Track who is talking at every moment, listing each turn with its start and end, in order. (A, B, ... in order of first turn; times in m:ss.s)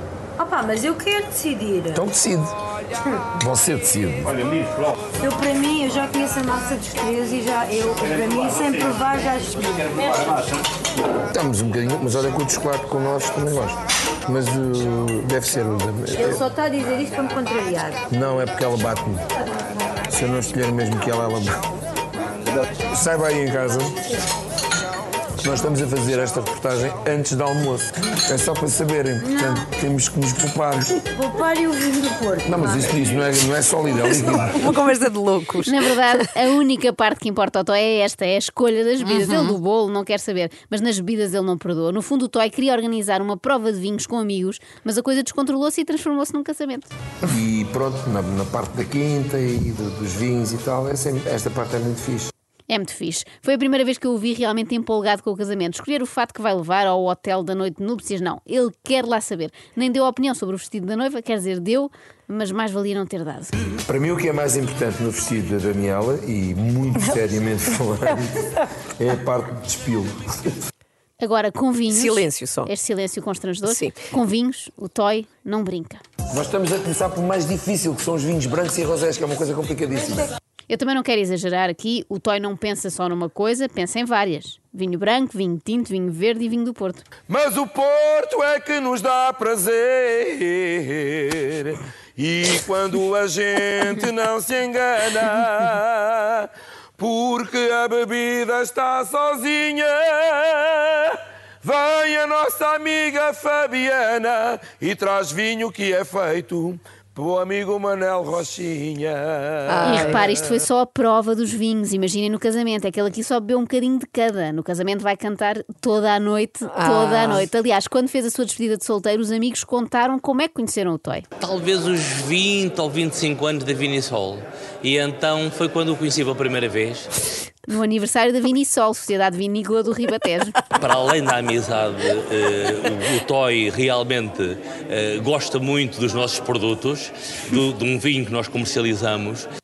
0:00.4-0:01.9 A
0:01.9-0:02.5 B
0:03.4-0:04.3 B
0:05.2-0:09.6 A
0:11.3-0:16.4 B
0:16.9-0:17.7 A
0:18.1-0:19.2 B
0:20.1-0:21.6 B
0:22.9-0:23.9 B
0:25.4-0:31.0 B
0:31.2-0:32.6 A
0:32.4-0:34.6 B
0:34.5-0:35.6 C
0:35.6-0:46.9 D
0:47.2-0:52.3 B
0:52.7-1:03.5 D
1:03.8-1:08.3 B
1:09.0-1:10.2 B
1:11.2-1:16.0 D
1:12.0-1:12.7 C
1:16.3-1:20.3 B
1:20.7-1:27.0 D
1:27.3-1:50.2 B
1:49.7-1:50.1 C
1:49.8-2:01.2 D
2:01.4-2:07.1 E
2:07.7-2:10.6 D
2:10.8-2:19.5 E